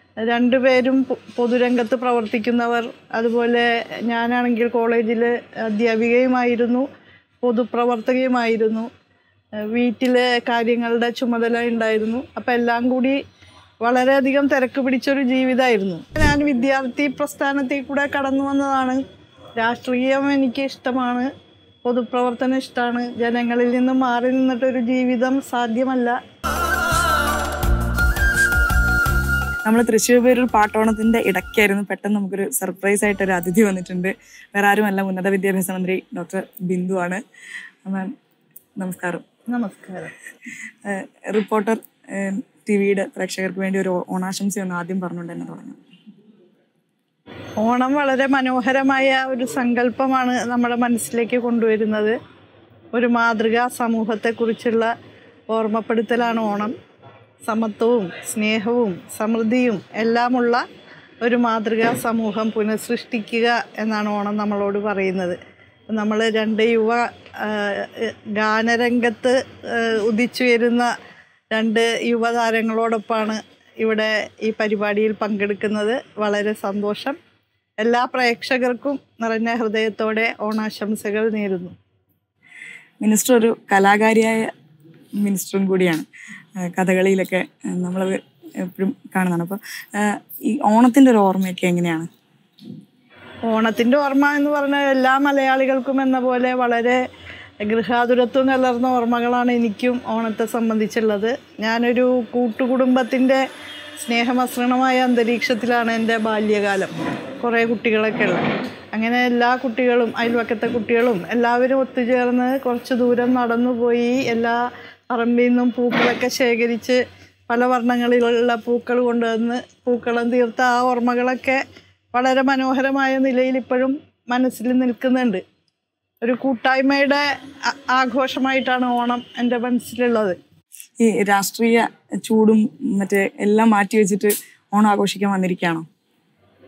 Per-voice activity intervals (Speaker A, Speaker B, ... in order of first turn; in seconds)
Speaker A: 0.3-6.9, 7.4-8.9, 9.7-13.2, 13.8-19.0, 19.6-21.3, 21.9-26.2, 39.5-40.1, 47.6-52.1, 52.9-54.9, 55.5-56.7, 57.5-60.6, 61.2-65.4, 65.9-70.9, 71.5-77.2, 77.8-81.7, 93.5-97.0, 97.7-103.4, 104.0-114.6, 115.1-121.6, 122.1-125.4, 126.2-127.2, 127.9-130.4
Speaker B: 29.7-37.2, 37.9-38.1, 38.8-39.2, 40.9-45.8, 83.0-84.5, 85.2-86.1, 86.6-92.1, 131.0-135.8